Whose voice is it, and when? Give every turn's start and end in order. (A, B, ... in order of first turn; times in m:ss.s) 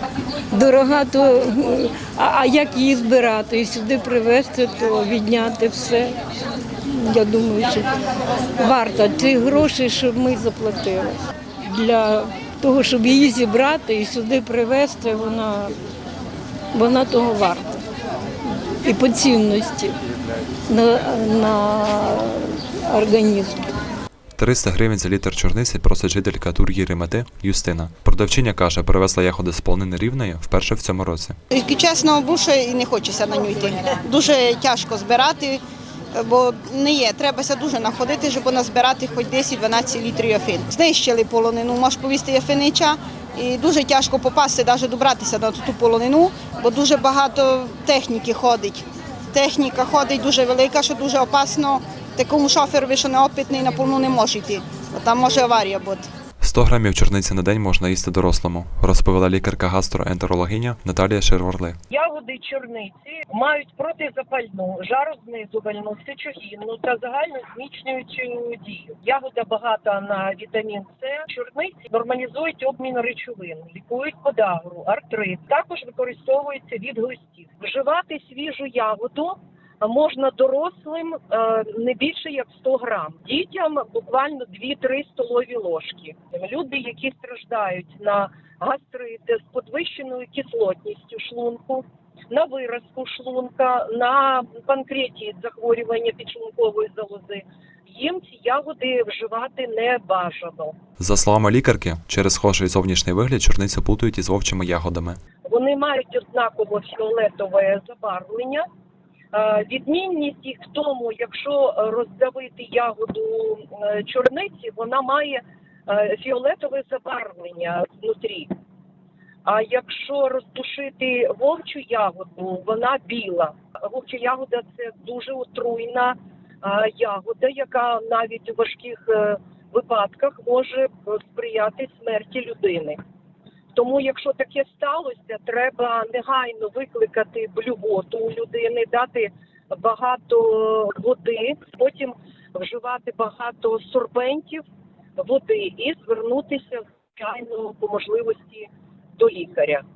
0:00.5-0:06.2 A
0:06.8-0:07.9 A
0:08.6-0:15.7 A
0:16.7-0:17.8 A
0:18.8-0:19.9 A
0:20.7-0:23.7 A
0:24.4-0:31.4 B
0:31.5-0:35.6 C
0:36.1-0:56.1 C
0:56.4-1:01.8 B
1:01.9-1:40.8 D
1:41.0-1:45.2 B
1:45.4-1:48.7 D
1:49.3-1:58.5 D
1:59.4-2:13.0 D
2:13.7-2:24.6 D
2:25.2-2:29.8 D